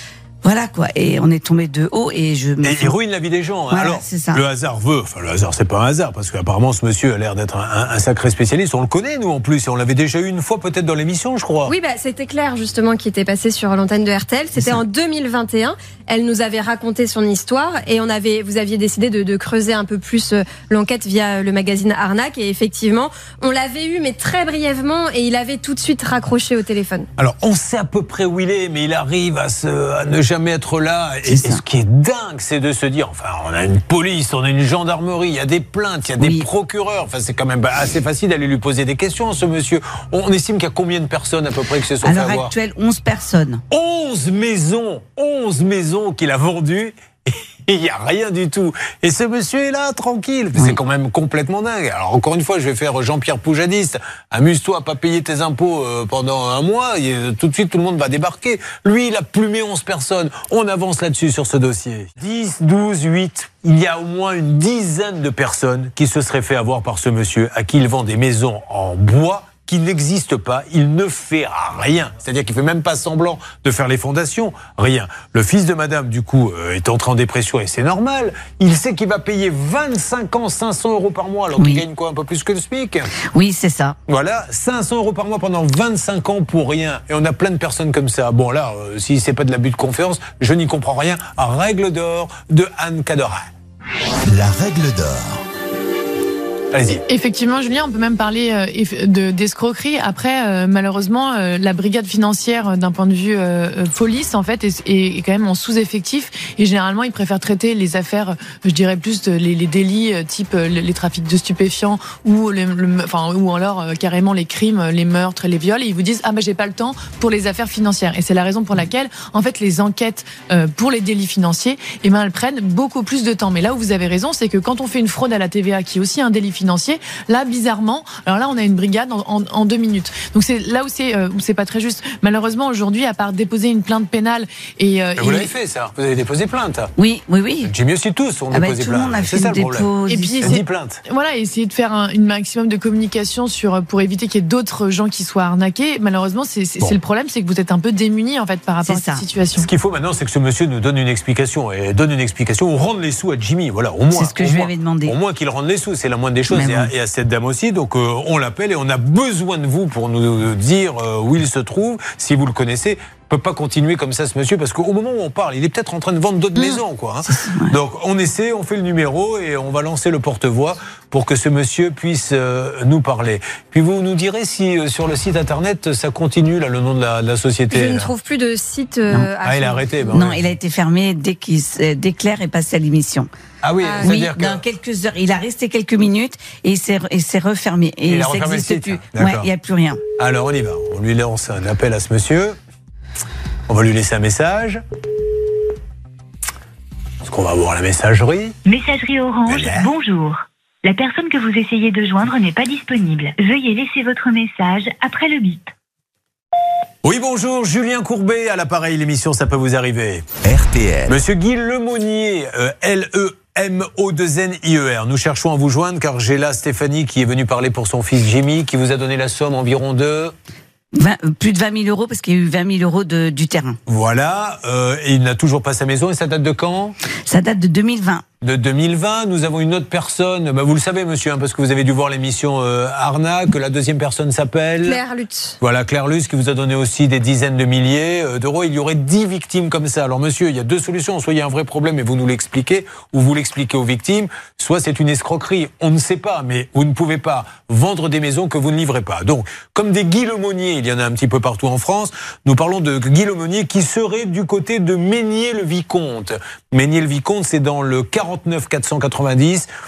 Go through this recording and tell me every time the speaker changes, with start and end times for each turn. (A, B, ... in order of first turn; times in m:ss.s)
0:00.4-0:03.0 A
0:02.6-0:11.7 B
0:03.7-0:04.4 A
0:11.7-0:27.1 C
0:27.2-0:42.5 B
0:31.2-0:31.6 A
0:36.2-0:36.5 A
0:42.0-0:43.6 A
0:43.7-1:23.1 B
1:21.6-1:21.8 A
1:23.3-1:24.0 A
1:24.1-1:33.5 B
1:34.3-1:35.4 D
1:36.7-1:37.0 B
1:37.1-2:15.5 E
2:15.2-2:16.9 B
2:17.0-2:17.7 A
2:17.6-2:21.0 B
2:18.5-2:20.5 A
2:20.1-2:29.7 E
2:28.8-2:29.2 A
2:29.6-2:58.1 B
2:34.1-2:35.2 A
2:36.5-2:36.9 A
2:47.2-2:47.8 A
2:57.7-3:00.2 C
2:59.4-3:00.6 B
3:00.1-3:03.3 A
3:03.6-3:04.6 B
3:03.8-3:04.1 C
3:04.0-3:10.0 A
3:08.1-3:09.5 B
3:10.2-3:12.6 B
3:13.7-3:14.8 B
3:17.2-3:18.6 B
3:18.6-3:25.7 F
3:19.5-3:19.9 B
3:27.0-3:30.3 B
3:30.4-3:31.2 D
3:31.1-3:40.3 B
3:40.9-3:43.8 A
3:43.9-3:47.0 B
3:47.3-3:48.2 A
3:48.4-3:55.0 B
3:54.8-3:55.6 C
3:55.6-4:19.7 B